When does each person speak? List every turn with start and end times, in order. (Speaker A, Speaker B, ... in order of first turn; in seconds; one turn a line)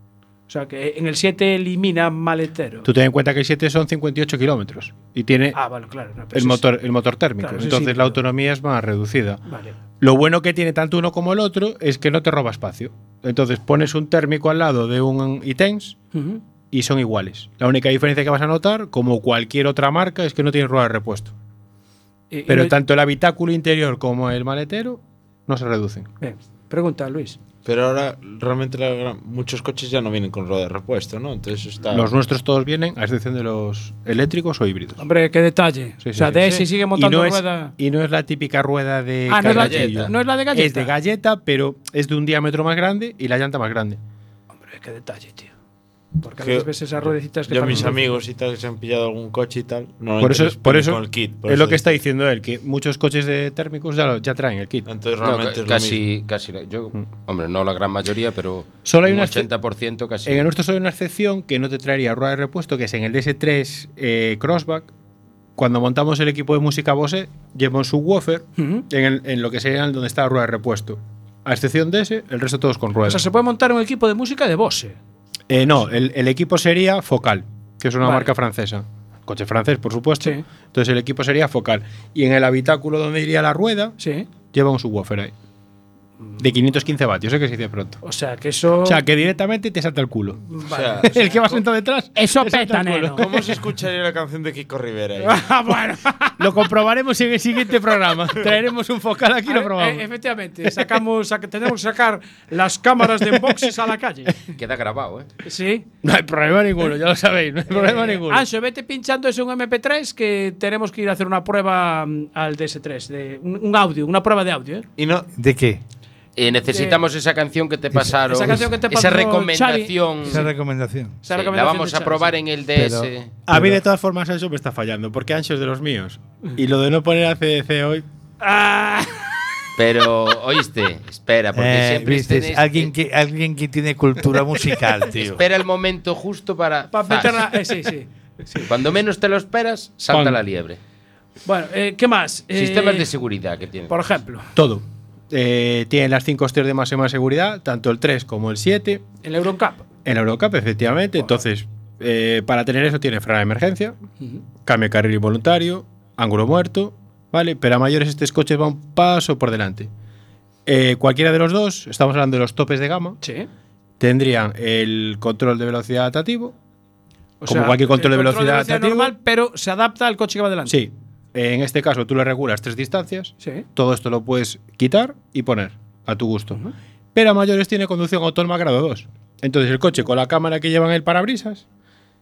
Speaker A: 0.5-2.9
Speaker B: 2.8-5.6
Speaker A: 5.5-6.7
Speaker B: 6.3-9.4
Speaker A: 7.4-8.2
Speaker A: 9.4-9.8
Speaker B: 10.0-16.0
Speaker A: 16.1-16.4
Speaker B: 16.7-21.3
Speaker A: 22.3-22.7
Speaker B: 22.5-26.1
Speaker A: 26.2-27.4
Speaker C: 27.6-32.1
Speaker B: 31.9-35.0
Speaker A: 35.0-37.7
Speaker B: 36.0-44.0
Speaker C: 36.4-36.6
Speaker A: 39.3-40.9
Speaker D: 39.4-40.1
Speaker A: 44.6-45.5
Speaker A: 46.2-48.2
Speaker C: 46.4-52.0
Speaker B: 50.2-54.9
Speaker C: 54.9-56.0
Speaker D: 55.2-60.5
Speaker B: 58.8-59.5
Speaker B: 60.2-64.9
Speaker B: 65.6-73.2
Speaker A: 68.6-68.8
Speaker A: 73.0-75.0
Speaker B: 75.5-84.0
Speaker A: 78.0-78.3
Speaker A: 84.0-84.3
Speaker B: 84.5-85.3
Speaker B: 86.4-88.0
Speaker A: 88.0-89.0
Speaker B: 88.8-90.4
Speaker A: 90.5-91.3
Speaker C: 90.7-91.5
Speaker B: 91.0-93.5
Speaker A: 92.1-93.3
Speaker C: 93.1-95.4
Speaker A: 95.2-96.4
Speaker B: 96.4-100.1
Speaker A: 99.5-104.4
Speaker B: 103.2-103.5
Speaker D: 104.5-105.3
Speaker A: 105.4-105.9
Speaker B: 106.0-108.5
Speaker A: 107.7-114.8
Speaker C: 115.0-115.3
Speaker E: 115.3-115.8
Speaker D: 116.3-120.5
Speaker A: 116.7-117.0
Speaker A: 118.2-120.5
Speaker E: 120.2-121.2
Speaker A: 121.2-122.4
Speaker D: 121.3-123.3
Speaker E: 122.7-123.8
Speaker B: 123.5-128.0
Speaker A: 128.4-129.3
Speaker D: 129.8-132.9
Speaker E: 131.5-135.4
Speaker D: 135.1-137.6
Speaker A: 136.9-138.7
Speaker D: 138.6-140.8
Speaker B: 140.1-140.4
Speaker A: 141.4-143.1
Speaker D: 142.5-144.0
Speaker A: 143.9-144.5
Speaker B: 144.5-149.0
Speaker A: 149.2-149.8
Speaker B: 150.1-153.9
Speaker A: 151.2-151.4
Speaker B: 154.6-159.9
Speaker B: 160.7-163.2
Speaker A: 163.2-163.5
Speaker B: 164.0-166.5
Speaker A: 167.4-170.8
Speaker B: 167.4-169.1
Speaker B: 170.7-176.6
Speaker B: 177.1-181.6